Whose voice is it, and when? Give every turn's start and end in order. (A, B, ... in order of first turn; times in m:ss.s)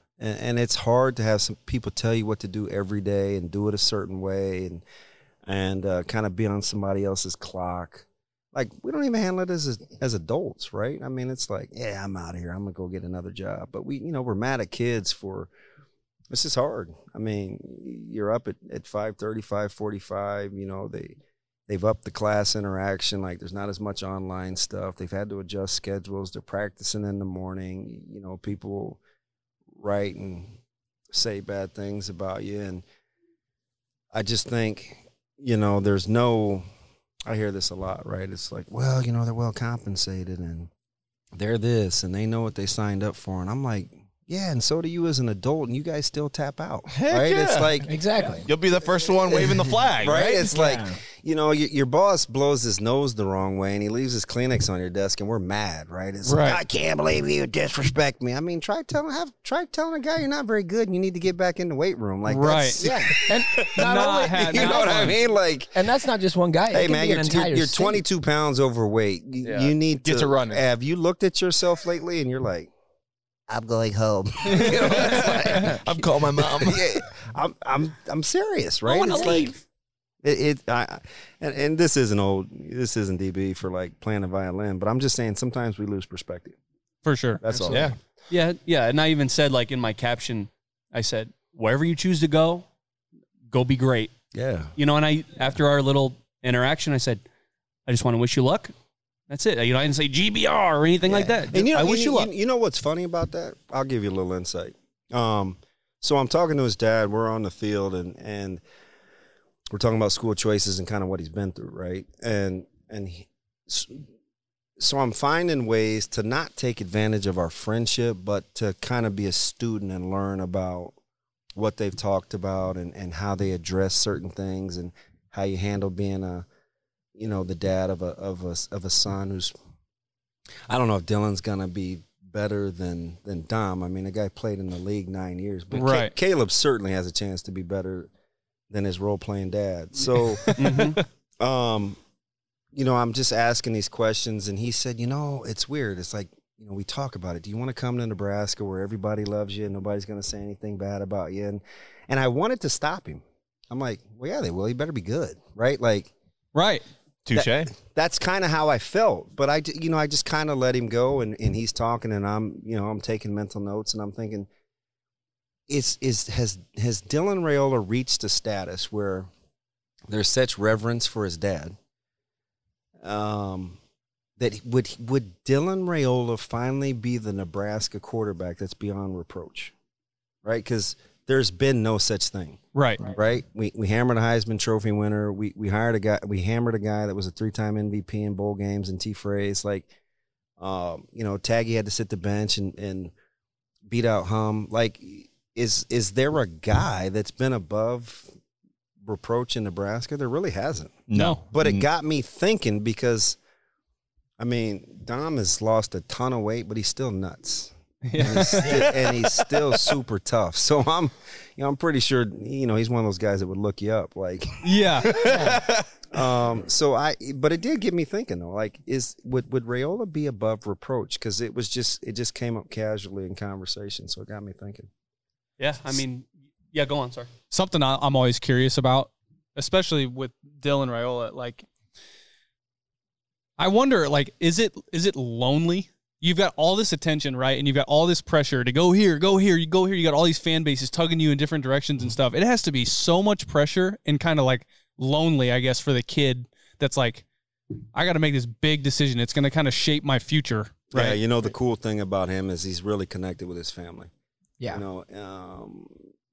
0:00.2-0:04.8 A
0:05.4-0:15.5 A
0:16.3-0:21.2 A
0:21.7-0:29.0 A
0:29.7-0:30.5 A
0:31.1-0:32.8 A
0:34.1-0:36.6 A
0:37.2-0:40.7 A
0:41.3-0:47.9 A
0:46.9-0:47.8 B
0:47.8-0:48.5 C
0:48.4-0:50.4 B
0:49.2-1:03.8 A
0:50.4-0:51.0 C
0:56.2-0:56.6 D
1:02.2-1:02.8 D
1:02.8-1:05.2 C
1:03.7-1:05.2 D
1:04.4-1:05.7 A
1:05.7-1:08.0 C
1:06.7-1:12.7 A
1:09.4-1:10.6 B
1:13.5-1:19.6 A
1:14.4-1:16.8 B
1:14.7-1:15.7 C
1:18.8-1:19.6 E
1:20.2-1:26.6 A
1:27.0-1:27.4 D
1:27.4-1:28.0 A
1:27.7-1:28.0 B
1:28.3-1:32.6 E
1:33.5-1:34.1 E
1:34.3-1:34.7 A
1:34.8-1:37.2 E
1:37.9-1:38.7 E
1:39.3-1:42.3 E
1:41.0-1:48.6 A
1:49.7-1:54.0 A
1:54.8-2:00.9 A
2:01.5-2:06.4 A
2:07.1-2:09.5 A
2:10.7-2:18.1 A
2:15.7-2:16.1 D
2:18.7-2:22.0 A
2:20.4-2:21.0 D
2:20.6-2:21.0 E
2:22.7-2:36.1 A
2:36.5-2:36.8 D
2:37.2-2:37.7 B
2:37.3-2:44.5 A
2:45.7-2:49.3 A
2:50.1-2:51.8 A
2:53.0-2:53.8 A
2:54.4-2:59.7 A
3:00.4-3:09.9 A
3:02.7-3:03.1 D
3:10.6-3:13.1 A
3:13.9-3:18.3 A
3:19.0-3:23.4 A
3:21.1-3:21.8 B
3:21.1-3:21.4 D
3:24.4-3:35.5 A
3:28.0-3:29.2 D
3:34.6-3:35.4 D
3:35.2-3:35.6 C
3:36.1-3:44.9 A
3:45.6-3:47.3 E
3:47.5-3:51.6 D
3:53.6-4:07.2 D
4:07.9-4:11.2 D
4:10.9-4:14.1 A
4:14.7-4:15.9 A